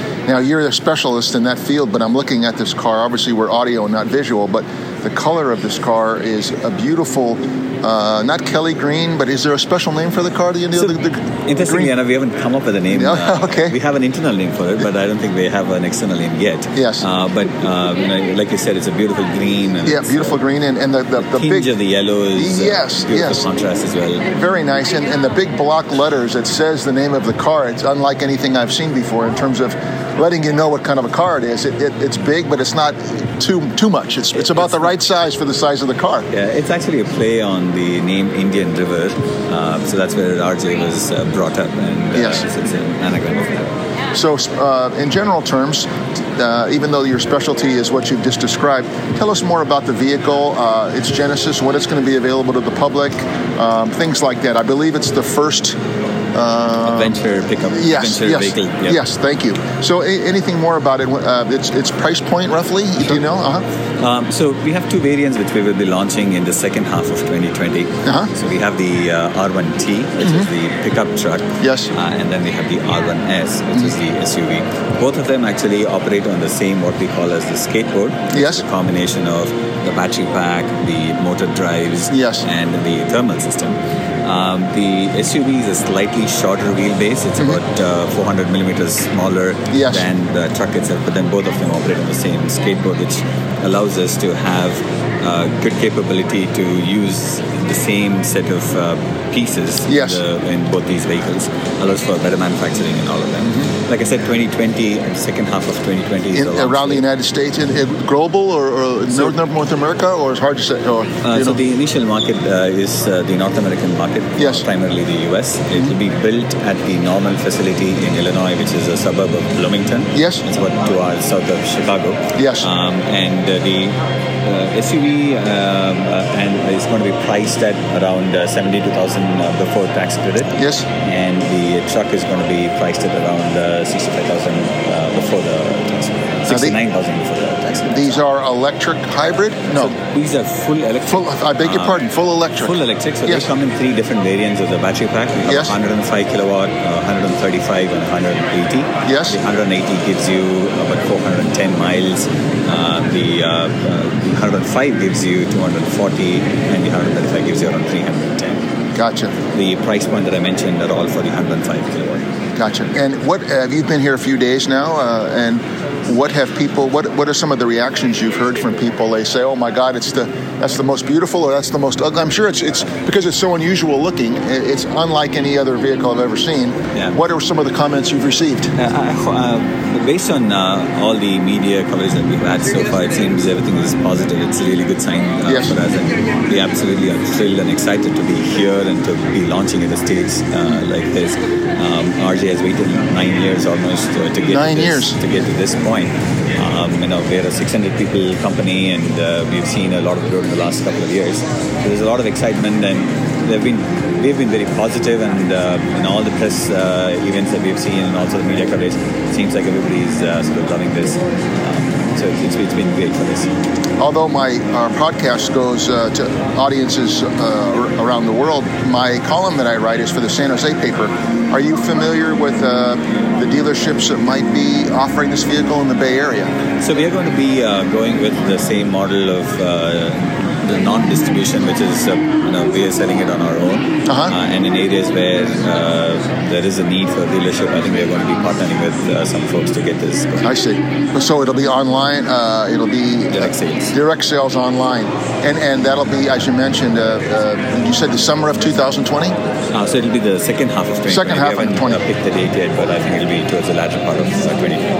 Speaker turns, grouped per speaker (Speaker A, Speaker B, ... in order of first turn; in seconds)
Speaker A: 0.2-11.9, 12.9-13.8, 16.7-17.1, 19.8-21.7, 22.4-23.5, 24.3-36.3, 42.1-42.4, 44.1-55.8, 56.3-63.6, 68.0-68.3, 70.2-70.5, 71.6-71.9, 78.3-78.6, 82.1-82.5, 89.7-90.1, 99.8-100.2, 103.4-103.7, 106.3-111.6, 114.4-114.7, 120.1-120.4, 122.3-122.7, 130.6-130.9, 136.5-136.8, 137.8-139.9, 141.1-143.5, 145.4-145.7, 149.1-149.4, 158.9-159.3, 162.5-178.7, 185.4-185.8, 194.5-195.2, 214.0-226.5, 234.1-234.3, 240.4-249.4, 251.1-252.0
Speaker B: 11.4-20.4, 21.2-24.2, 34.5-34.9, 36.3-43.8, 56.8-59.0, 64.0-107.0, 109.1-109.4, 111.2-138.2, 139.7-142.0, 142.6-158.7, 159.5-162.2, 178.8-213.5, 226.8-240.5, 243.3-243.9, 249.7-254.9